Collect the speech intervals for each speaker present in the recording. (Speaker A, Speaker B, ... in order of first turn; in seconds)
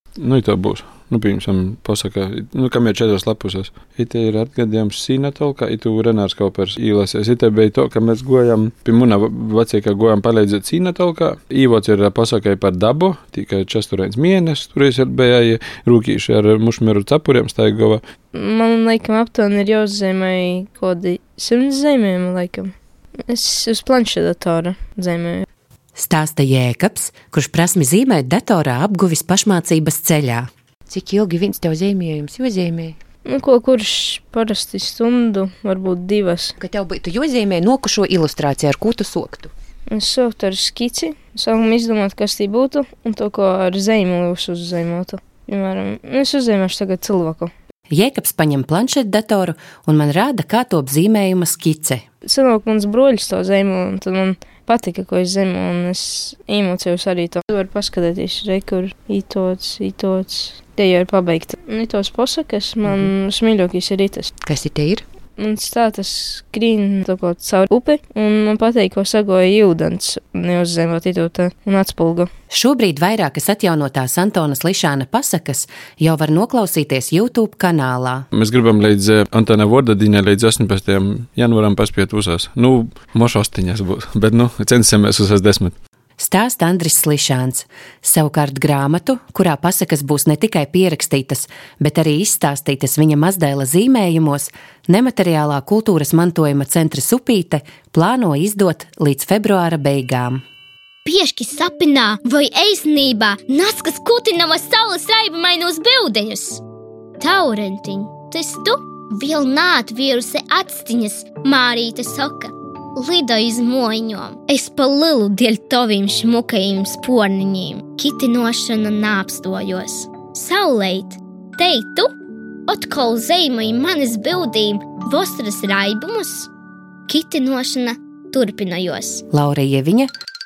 Speaker A: 0.2-18.0, 78.3-85.8
Speaker B: 18.3-22.7, 23.3-25.4, 33.3-36.5, 39.9-47.5, 52.2-64.3, 65.4-72.3
Speaker C: 26.0-30.5, 47.9-52.0, 72.5-78.3, 86.2-100.4, 129.3-130.1
Speaker D: 30.9-33.0, 36.6-39.5, 64.4-65.0
Speaker E: 101.0-106.6, 107.2-122.1, 122.7-126.5, 127.1-129.2